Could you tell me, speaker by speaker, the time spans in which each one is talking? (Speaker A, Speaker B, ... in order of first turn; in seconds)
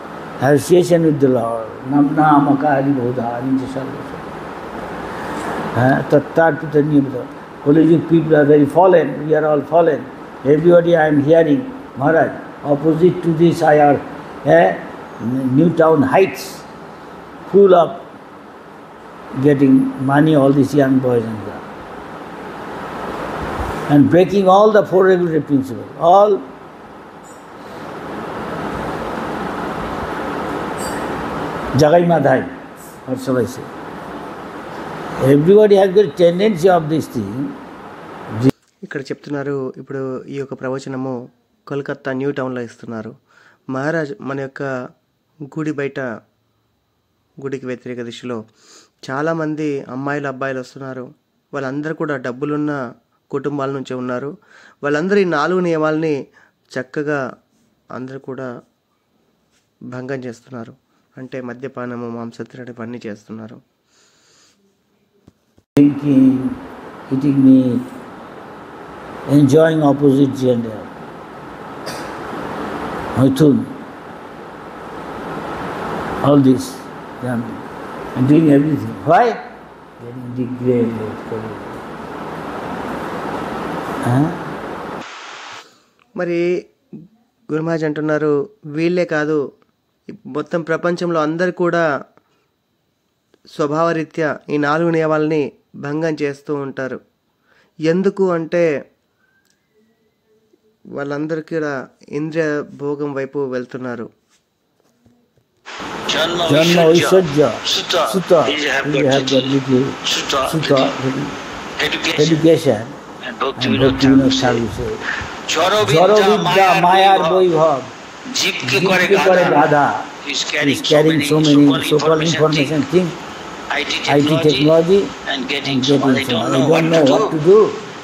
Speaker A: 0.4-4.2, 5.8-16.6, 17.5-18.1, 19.4-21.6, 23.9-26.5, 31.8-32.5, 33.1-33.7, 35.2-37.5, 65.8-67.9, 69.3-70.9, 73.2-73.8, 76.2-77.6, 78.2-79.4, 80.0-81.8, 84.0-84.5, 106.5-111.3, 112.2-113.0, 113.6-115.0, 115.8-117.9, 118.6-123.2, 124.1-127.8
Speaker B: 38.9-43.1, 43.7-44.7, 45.5-46.1, 47.4-48.4, 49.1-52.8, 53.3-54.3, 54.9-56.2, 56.8-57.2, 58.0-58.5, 59.9-63.6, 86.2-86.4, 87.5-89.4, 90.1-91.8, 93.6-97.0, 97.9-98.7, 101.0-104.1
Speaker C: 106.1-111.0, 111.8-112.4, 113.2-114.6, 115.5-117.5, 118.3-119.7, 120.2-122.8, 123.7-124.8, 125.3-127.4